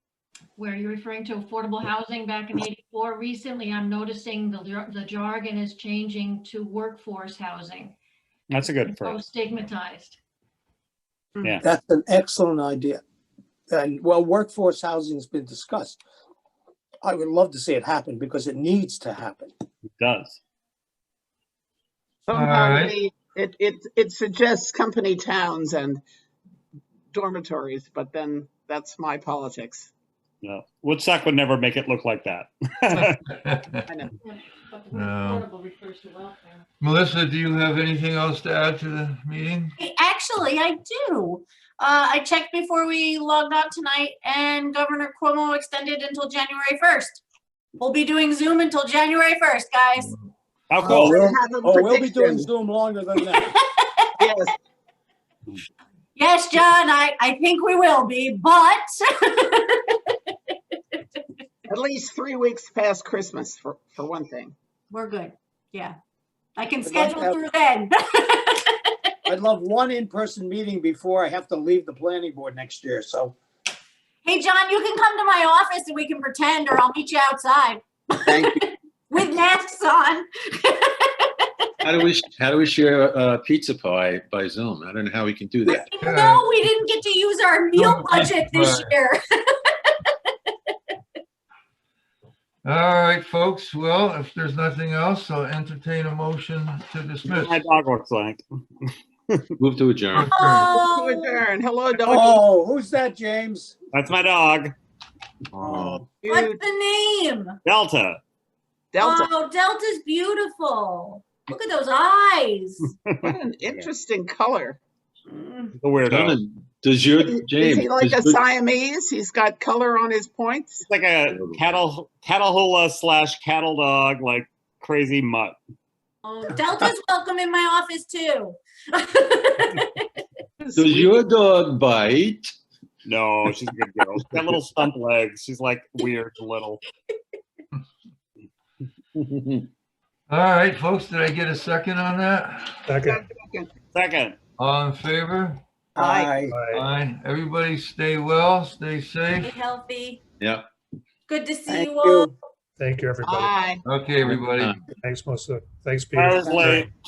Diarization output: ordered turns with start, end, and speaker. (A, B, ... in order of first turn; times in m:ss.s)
0:00.6-0:08.0 A
0:08.5-0:09.2 B
0:08.9-0:10.2 A
0:11.6-0:13.0 C
0:13.7-0:16.0 C
0:17.0-0:19.5 C
0:19.9-0:20.4 B
0:22.3-0:26.0 D
0:22.3-0:23.0 E
0:27.1-0:29.9 D
0:30.4-0:33.2 B
0:33.0-0:33.8 E
0:33.9-0:34.1 D
0:34.2-0:36.6 A
0:34.9-0:35.5 E
0:36.8-0:39.7 E
0:39.8-0:47.2 F
0:47.8-0:50.1 F
0:50.7-0:51.2 B
0:50.8-0:53.5 C
0:50.8-0:52.5 D
0:53.4-0:54.1 F
0:54.2-0:54.5 D
0:56.2-1:01.3 F
1:01.7-1:04.6 D
1:04.9-1:06.0 F
1:06.6-1:09.1 F
1:06.8-1:07.4 C
1:09.3-1:13.4 C
1:14.2-1:21.7 F
1:18.3-1:18.6 C
1:21.8-1:25.9 G
1:25.7-1:29.2 F
1:26.0-1:26.5 E
1:27.8-1:28.9 E
1:29.7-1:30.7 F
1:32.6-1:37.6 E
1:37.2-1:39.4 B
1:39.6-1:40.3 G
1:40.1-1:40.7 E
1:40.3-1:41.4 F
1:40.6-1:42.4 D
1:42.0-1:43.8 C
1:43.9-1:44.8 B
1:45.5-1:46.0 G
1:45.6-1:46.0 C
1:46.2-1:46.6 D
1:46.2-1:47.6 F
1:47.6-1:48.2 B
1:48.9-1:49.3 D
1:49.0-1:52.9 F
1:53.0-1:53.9 B
1:53.2-1:54.8 D
1:55.3-1:55.8 F
1:55.8-1:56.4 B
1:56.1-1:58.4 G
1:57.2-2:00.8 D
2:00.8-2:05.6 B
2:01.3-2:01.6 G
2:06.2-2:10.2 F
2:10.6-2:11.1 D
2:10.8-2:12.5 G
2:13.1-2:16.8 B
2:19.2-2:19.7 G
2:20.3-2:22.9 E
2:22.9-2:23.2 H
2:23.0-2:23.7 D
2:23.9-2:24.4 B
2:24.6-2:25.6 E
2:26.0-2:26.5 C
2:26.0-2:26.3 B
2:26.5-2:26.8 H
2:26.7-2:29.6 E
2:29.4-2:30.2 F
2:30.4-2:30.7 G
2:31.3-2:32.3 F
2:31.7-2:32.3 C
2:32.8-2:33.6 H
2:33.2-2:33.8 D
2:33.8-2:34.8 E
2:34.2-2:34.8 G
2:35.0-2:36.9 H
2:36.2-2:36.9 B